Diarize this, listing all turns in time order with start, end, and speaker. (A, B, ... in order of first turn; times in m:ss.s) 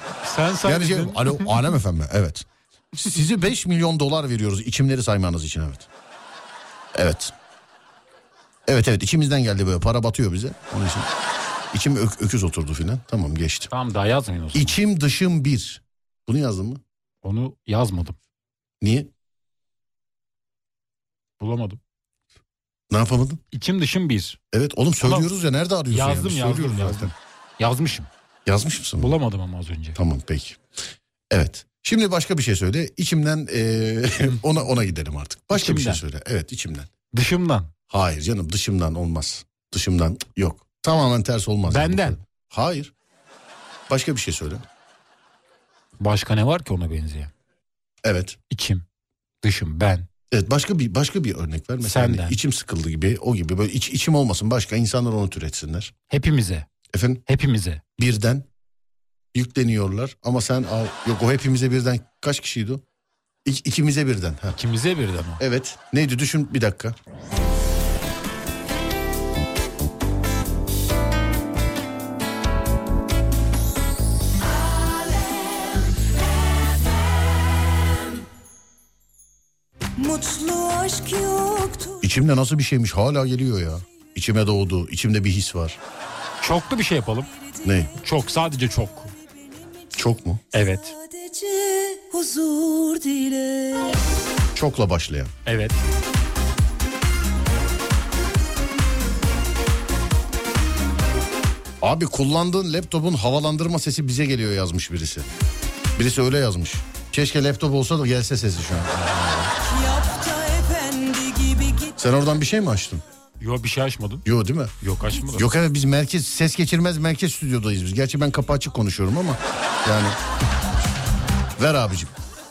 0:00.2-0:01.5 A
0:00.6-0:05.9 B
0:06.9-0:07.3 B
0:08.7-0:11.1 B
0:11.7-0:13.7 B
0:13.7-0:14.8 A
0:14.5-0:16.8 B
0:17.2-0:18.2 A
0:18.8-0:19.1 B
0:21.4-0:21.8 A
0:22.9-0:23.4 B
0:23.5-0:24.4 A
0:24.5-0:27.1 B
0:25.0-0:25.3 A
0:25.9-0:28.1 A
0:28.4-0:29.2 B
0:29.0-0:30.0 A
0:29.9-0:30.6 B
0:31.3-0:36.9 B
0:35.5-0:36.0 A
0:37.1-0:37.7 A
0:37.9-0:42.9 B
0:41.7-0:42.2 A
0:43.9-0:44.6 B
0:46.0-0:47.3 A
0:48.0-0:48.4 B
0:48.5-0:48.8 A
0:49.4-0:50.1 A
0:50.3-0:55.9 B
0:51.8-0:52.4 A
0:56.1-0:56.7 A
0:56.9-0:57.2 B
0:57.3-0:57.8 A
0:58.0-0:58.5 B
0:59.3-1:02.8 B
1:03.4-1:04.6 B
1:04.5-1:05.4 A
1:05.4-1:07.0 B
1:15.1-1:15.7 C
1:20.0-1:22.0 C
1:22.0-1:25.8 B
1:26.4-1:27.3 A
1:27.6-1:27.9 B
1:28.0-1:29.1 A
1:29.9-1:30.4 B
1:30.5-1:30.9 A
1:31.1-1:34.0 C
1:34.6-1:35.3 B
1:35.4-1:35.8 A
1:41.8-1:45.3 B
1:46.0-1:49.5 B
1:49.6-1:51.9 C
1:52.0-1:53.0 B
1:53.4-1:54.2 A
1:54.2-1:54.7 B
1:54.8-1:55.5 A
1:55.3-2:00.2 B
2:01.6-2:02.1 B